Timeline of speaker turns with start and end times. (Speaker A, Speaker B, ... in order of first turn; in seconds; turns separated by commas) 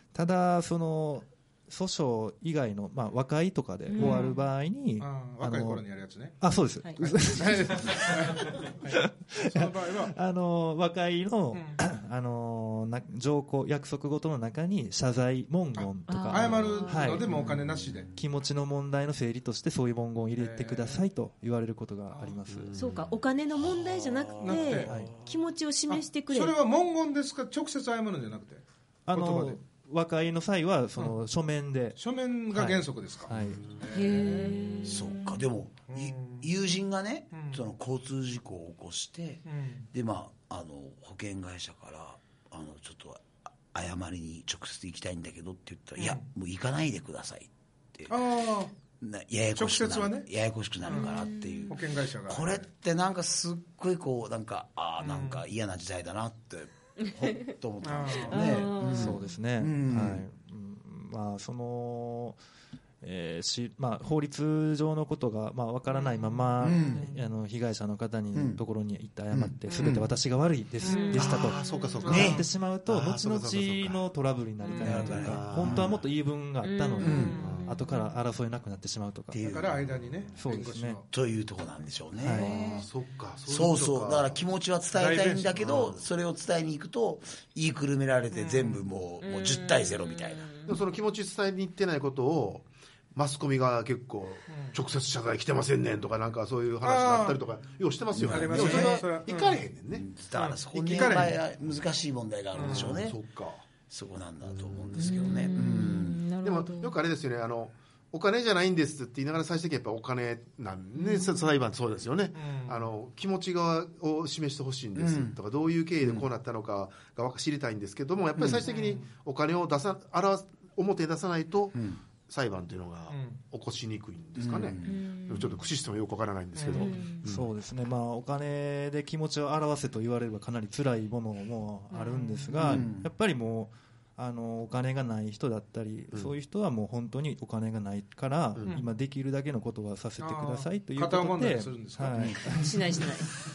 Speaker A: 0.1-5.8, Speaker B: 3.9-4.4, Speaker C: 4.0-4.3, Speaker C: 5.0-6.4, Speaker A: 6.4-17.3, Speaker B: 6.8-7.1, Speaker C: 7.3-10.1, Speaker C: 11.5-11.8, Speaker C: 15.8-18.1, Speaker B: 16.1-17.2, Speaker A: 18.1-22.7, Speaker C: 20.4-21.0, Speaker D: 22.5-23.0, Speaker B: 22.8-26.6, Speaker C: 24.4-25.0, Speaker A: 24.8-25.1, Speaker C: 25.9-29.6, Speaker A: 29.1-32.0, Speaker C: 32.0-34.9, Speaker A: 32.5-33.7, Speaker D: 33.5-33.8, Speaker B: 33.9-35.4, Speaker E: 34.8-48.1, Speaker C: 35.9-36.5, Speaker C: 37.3-37.6, Speaker C: 39.5-39.9, Speaker C: 46.0-46.2, Speaker C: 48.1-48.7, Speaker E: 49.0-60.2, Speaker C: 49.6-50.3, Speaker C: 50.9-51.2, Speaker B: 50.9-51.7, Speaker C: 51.7-52.7, Speaker C: 55.0-55.4, Speaker B: 57.0-57.5, Speaker C: 57.8-58.7, Speaker B: 58.3-59.2, Speaker A: 58.9-62.4, Speaker A: 63.0-79.4, Speaker E: 66.6-67.1, Speaker C: 66.8-67.2, Speaker E: 68.3-68.6, Speaker E: 69.3-70.1, Speaker B: 70.8-72.3, Speaker D: 71.1-74.0, Speaker C: 72.0-72.3, Speaker E: 72.1-72.4, Speaker B: 74.6-75.1, Speaker E: 74.8-76.0, Speaker D: 75.0-76.0, Speaker B: 76.6-78.1, Speaker E: 77.0-77.4, Speaker D: 77.4-77.8, Speaker E: 79.3-79.9, Speaker C: 79.4-81.1, Speaker A: 80.4-81.0, Speaker E: 81.1-82.9, Speaker A: 82.2-82.5, Speaker D: 82.4-84.4, Speaker E: 83.5-90.5, Speaker C: 84.9-85.6, Speaker D: 85.6-86.1, Speaker C: 88.5-88.8, Speaker B: 89.2-90.7, Speaker D: 90.7-100.1, Speaker C: 94.5-94.8, Speaker C: 96.8-97.4, Speaker E: 98.2-99.0, Speaker C: 98.2-99.6, Speaker E: 99.9-103.2, Speaker C: 100.3-101.4, Speaker C: 102.5-103.0, Speaker D: 102.6-103.6, Speaker E: 103.9-106.2, Speaker D: 104.5-105.5, Speaker B: 105.0-107.0, Speaker D: 106.4-127.5, Speaker B: 111.0-111.5, Speaker C: 112.3-112.9, Speaker E: 115.0-115.4, Speaker E: 116.0-116.3, Speaker E: 118.4-118.6, Speaker C: 118.6-119.1, Speaker E: 121.8-122.0, Speaker C: 123.1-123.4, Speaker E: 124.4-125.0, Speaker B: 124.8-125.6, Speaker C: 126.6-126.9, Speaker B: 126.7-127.2, Speaker A: 127.2-142.8, Speaker C: 131.9-132.8, Speaker E: 132.6-133.1, Speaker C: 140.2-142.7, Speaker B: 142.5-143.3